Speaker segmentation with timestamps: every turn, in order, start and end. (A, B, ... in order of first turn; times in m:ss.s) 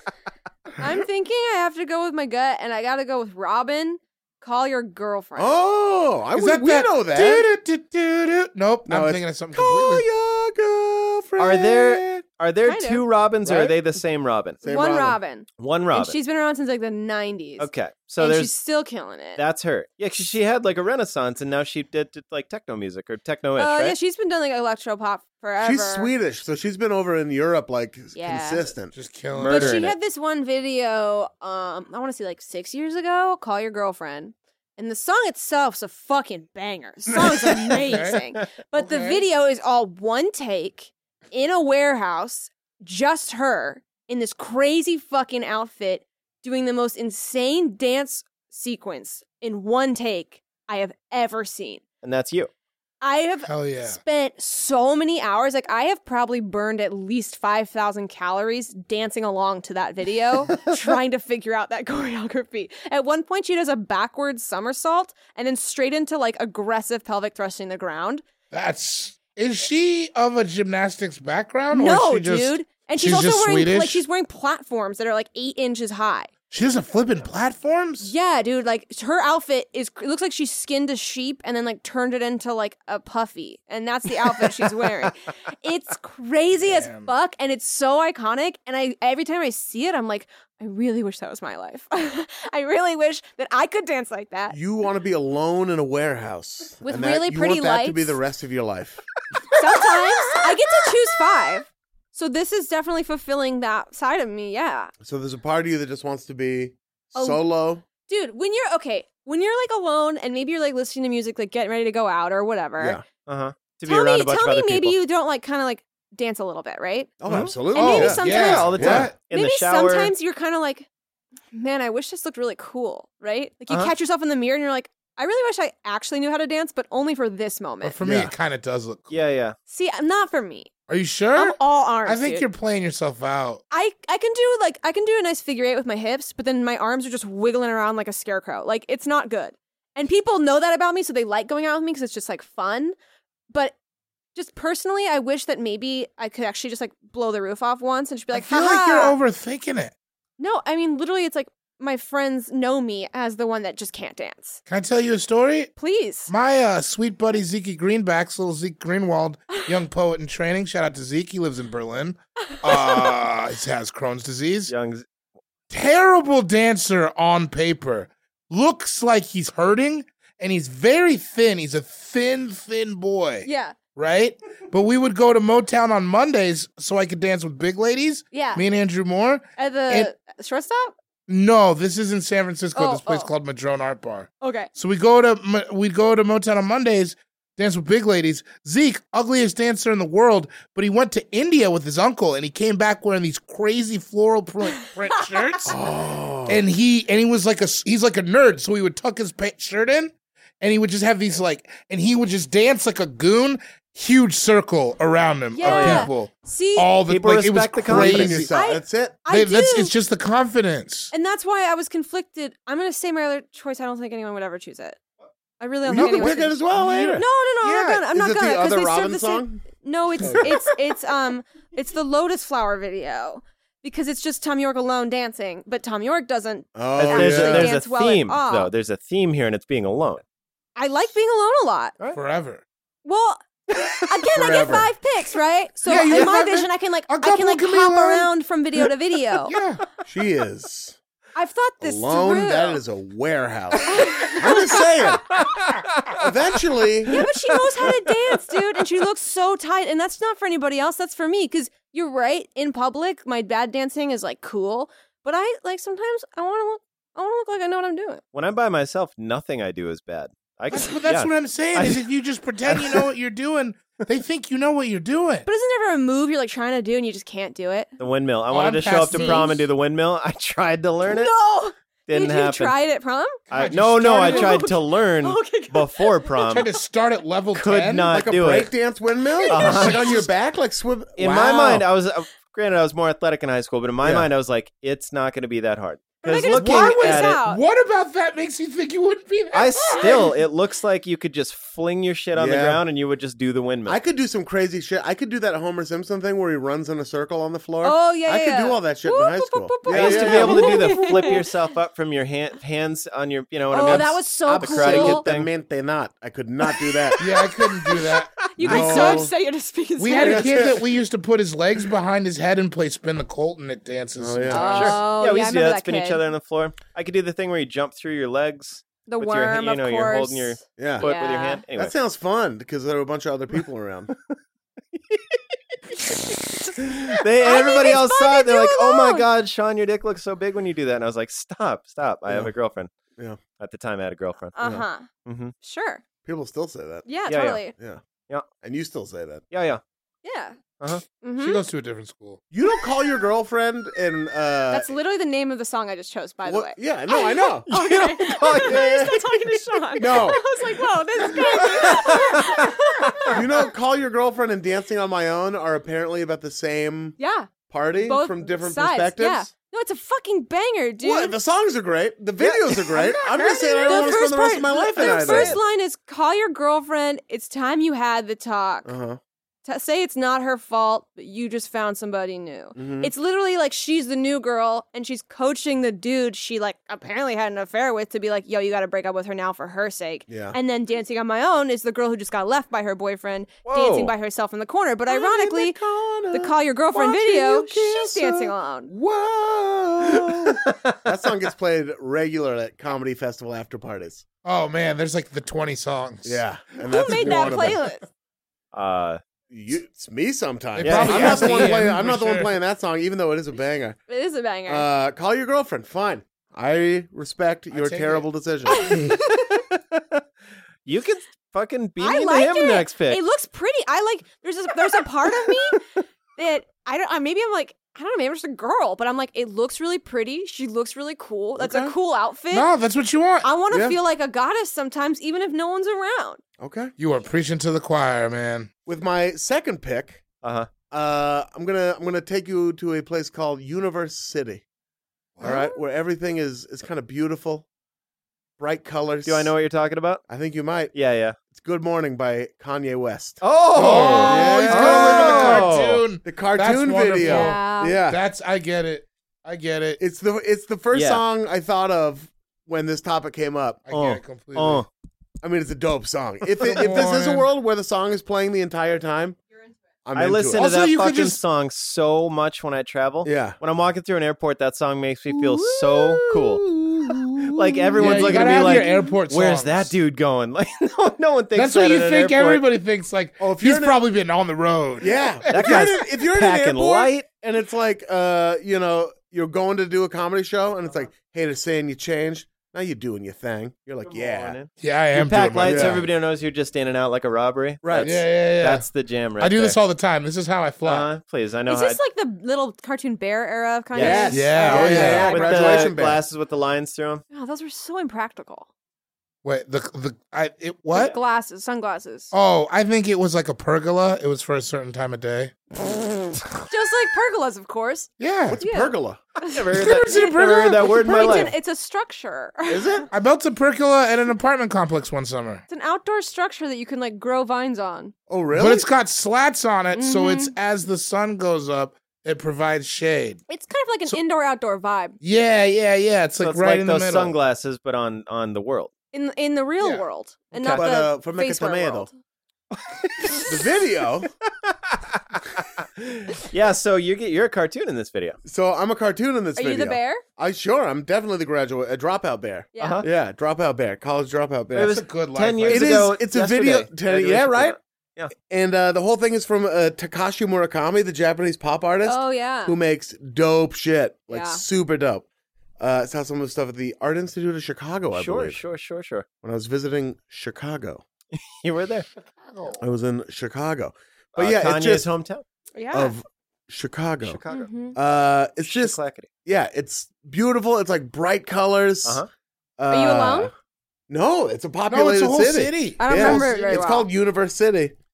0:00.8-0:05.6 A
0:05.4-0:07.5 B
0:06.4-0:10.0 C
0:08.9-0:12.2 B
0:11.4-0:14.6 D
0:12.6-0:13.0 A
0:13.4-0:13.8 B
0:14.6-0:15.2 B
0:14.7-0:19.4 A
0:15.6-0:16.2 D
0:17.6-0:18.6 D
0:19.4-0:24.0 D
0:23.6-0:26.1 A
0:25.6-0:28.9 B
0:28.1-0:28.7 A
0:28.9-0:29.8 C
0:29.3-0:30.0 D
0:29.4-0:51.8 A
0:37.7-0:38.2 C
0:38.8-0:39.2 C
0:52.0-0:52.5 D
0:53.0-1:08.2 A
0:53.5-0:54.0 C
1:08.5-1:14.0 C
1:11.7-1:16.3 A
1:16.5-1:18.1 C
1:18.0-1:34.6 A
1:26.6-1:27.1 C
1:34.5-1:39.0 B
1:36.8-1:38.2 A
1:39.5-1:44.9 A
1:45.0-1:47.8 B
1:47.2-1:47.4 A
1:48.1-1:53.0 A
1:52.8-1:53.0 B
1:53.3-1:55.0 D
1:53.8-1:57.1 A
1:57.2-1:58.2 B
1:57.3-2:00.1 D
1:57.7-2:00.9 A
1:57.8-1:59.1 C
1:58.8-1:59.1 B
2:01.5-2:08.0 A
2:07.8-2:09.1 C
2:08.0-2:08.3 B
2:09.1-2:09.6 D
2:09.7-2:10.7 A
2:10.9-2:13.6 C
2:11.4-2:12.5 A
2:13.7-2:23.0 A
2:23.5-2:23.8 A
2:24.4-2:29.2 A
2:28.3-2:29.9 C
2:30.4-2:34.6 A
2:34.7-2:35.7 C
2:35.8-2:36.3 A
2:36.3-2:44.7 C
2:42.5-2:43.1 A
2:44.7-2:45.0 D
2:45.7-3:00.1 C
2:53.4-2:53.8 A
2:58.3-2:58.6 A
2:59.6-3:01.0 A
3:01.3-3:15.8 C
3:02.8-3:03.3 A
3:04.4-3:04.7 A
3:15.6-3:16.6 B
3:16.5-3:28.5 C
3:25.5-3:26.9 A
3:25.6-3:26.1 D
3:27.1-3:28.5 D
3:27.8-3:29.2 B
3:28.5-3:29.9 A
3:29.3-3:31.1 C
3:31.1-3:35.0 A
3:35.6-3:36.6 A
3:35.9-3:37.2 B
3:35.9-3:38.1 C
3:37.1-3:48.7 A
3:38.1-3:39.7 B
3:40.2-3:40.5 B
3:46.8-3:47.7 B
3:47.0-3:50.2 D
3:50.8-3:52.0 A
3:52.1-3:52.6 C
3:53.0-3:53.4 A
3:53.7-3:54.0 D
3:54.1-3:59.6 A
3:54.3-3:54.9 B
3:55.8-3:58.3 C
3:59.4-3:59.8 C
4:00.0-4:01.0 B
4:01.4-4:02.8 A
4:01.8-4:05.4 B
4:03.9-4:04.9 A
4:05.4-4:06.2 D
4:06.2-4:07.3 B
4:07.1-4:18.2 A
4:07.2-4:07.9 D
4:18.3-4:22.0 D
4:20.7-4:25.5 C
4:22.7-4:23.1 D
4:25.4-4:27.9 A
4:28.0-4:31.3 D
4:28.5-4:29.6 C
4:29.1-4:29.6 A
4:31.1-4:33.4 A
4:32.1-4:32.7 D
4:33.5-4:36.7 D
4:33.5-4:34.7 C
4:34.2-4:36.7 A
4:36.4-4:38.1 C
4:37.5-4:38.7 D
4:38.1-4:41.8 B
4:39.4-4:40.0 A
4:39.5-4:40.2 D
4:41.2-4:47.4 D
4:44.0-4:44.3 B
4:46.2-4:47.6 A
4:46.6-4:50.3 C
4:49.5-4:54.0 D
4:52.3-4:52.8 B
4:53.9-5:01.0 B
4:57.8-5:01.5 A
4:59.9-5:05.5 D
5:03.7-5:05.3 A
5:03.9-5:07.3 B
5:07.2-5:09.2 C
5:07.8-5:08.2 D
5:08.5-5:10.7 A
5:08.6-5:09.3 B
5:10.0-5:15.0 C
5:10.2-5:10.8 B
5:14.2-5:15.0 B
5:14.5-5:16.2 A
5:14.7-5:21.9 D
5:19.1-5:21.6 A
5:20.8-5:21.1 B
5:21.7-5:24.1 B
5:24.9-5:32.9 D
5:27.4-5:29.3 A
5:32.3-5:32.5 B
5:33.6-5:34.6 D
5:34.6-5:35.1 A
5:35.3-5:35.5 D
5:35.6-5:36.0 A
5:36.2-5:37.1 B
5:37.1-5:37.7 A
5:37.3-5:37.6 D
5:37.8-5:38.0 B
5:38.6-5:39.4 B
5:39.5-5:39.8 D
5:40.2-5:40.6 A
5:41.2-5:41.6 A
5:41.4-5:42.4 C
5:42.5-5:44.9 B
5:44.7-5:53.4 A
5:46.4-5:47.7 B
5:47.7-5:49.2 D
5:48.5-5:49.2 B
5:50.0-5:50.4 D
5:50.0-5:50.4 B
5:51.3-5:52.0 B
5:51.6-5:52.7 D
5:53.3-5:57.2 B
5:57.2-6:01.4 A
5:57.7-5:59.5 B
6:01.0-6:05.6 B
6:02.4-6:03.2 D
6:03.0-6:08.9 A
6:03.4-6:04.1 C
6:05.0-6:05.6 D
6:08.8-6:09.2 B
6:09.6-6:28.9 A
6:12.8-6:13.1 B
6:20.3-6:20.6 B
6:23.7-6:24.1 D
6:25.1-6:34.2 B
6:30.2-6:31.0 D
6:34.4-6:36.4 C
6:36.2-6:37.8 B
6:36.9-6:38.0 A
6:37.0-6:37.7 C
6:38.7-6:39.2 D
6:39.5-6:44.0 B
6:40.8-6:42.5 C
6:40.8-6:41.8 D
6:44.1-6:44.9 A
6:44.7-6:49.1 B
6:47.7-6:48.3 C
6:48.7-6:49.5 A
6:49.3-6:50.2 D
6:50.8-6:53.2 D
6:52.0-6:55.8 A
6:56.4-7:02.7 A
7:01.6-7:02.0 B
7:02.5-7:03.5 C
7:03.4-7:06.4 A
7:03.7-7:04.0 B
7:06.6-7:06.9 B
7:07.0-7:08.7 C
7:08.9-7:10.2 B
7:10.4-7:10.7 D
7:10.9-7:14.6 B
7:15.4-7:17.7 B
7:15.4-7:15.8 A
7:18.6-7:19.5 B
7:19.2-7:20.2 D
7:20.3-7:20.9 B
7:20.9-7:21.4 D
7:21.5-7:23.4 B
7:23.4-7:26.0 D
7:23.8-7:30.0 C
7:23.8-7:24.7 A
7:24.1-7:25.7 B
7:26.2-7:28.2 B
7:27.2-7:28.0 A
7:30.0-7:33.8 B
7:30.9-7:31.2 D
7:33.9-7:34.8 C
7:33.9-7:34.9 D
7:35.4-7:39.4 B
7:36.6-7:37.5 C
7:36.7-7:37.0 D
7:40.0-7:40.7 B
7:40.2-7:52.6 D
7:40.6-7:41.4 C
7:43.2-7:43.6 B
7:45.3-7:49.1 B
7:48.0-7:49.9 C
7:51.6-7:55.9 C
7:53.4-7:54.0 B
7:55.0-8:04.6 B
7:55.5-7:57.3 D
8:04.1-8:09.8 D
8:04.8-8:06.0 C
8:05.6-8:06.0 B
8:07.8-8:08.2 B
8:08.0-8:08.9 C
8:09.4-8:11.1 C
8:10.8-8:12.0 D
8:11.7-8:16.0 A
8:13.9-8:17.2 D
8:14.0-8:16.2 B
8:14.3-8:15.3 C
8:17.3-8:18.7 A
8:19.4-8:21.2 C
8:20.9-8:22.3 A
8:22.3-8:25.6 C
8:26.7-8:33.1 A
8:28.2-8:28.6 C
8:28.5-8:29.2 B
8:29.5-8:31.5 D
8:29.7-8:31.4 C
8:32.7-8:33.1 B
8:33.1-8:35.6 C
8:35.7-8:38.1 A
8:38.3-8:38.9 B
8:38.6-8:43.4 C
8:39.9-8:40.5 A
8:43.5-8:45.2 A
8:45.2-8:47.3 C
8:46.4-8:48.9 D
8:49.1-8:52.2 A
8:50.5-8:50.8 D
8:50.8-8:52.1 B
8:52.7-8:53.8 D
8:53.5-8:54.3 B
8:54.6-8:58.4 D
8:58.4-9:05.0 B
8:59.6-9:00.2 A
9:02.8-9:03.0 A
9:02.8-9:03.1 D
9:04.7-9:08.3 D
9:04.9-9:06.2 C
9:05.7-9:07.8 B
9:08.3-9:15.2 B
9:12.0-9:12.8 A
9:14.3-9:14.6 A
9:15.8-9:18.6 B
9:18.1-9:19.3 D
9:19.4-9:21.0 B
9:21.3-9:22.1 D
9:22.3-9:22.8 C
9:22.8-9:25.1 B
9:24.4-9:25.4 D
9:25.8-9:26.1 A
9:25.9-9:27.4 B
9:27.2-9:27.7 D
9:27.5-9:28.0 A
9:27.9-9:32.2 B
9:28.6-9:29.3 D
9:32.0-9:32.3 D
9:32.8-9:33.5 B
9:32.9-9:33.5 A
9:34.1-9:38.0 B
9:34.9-9:36.8 C
9:36.0-9:37.1 A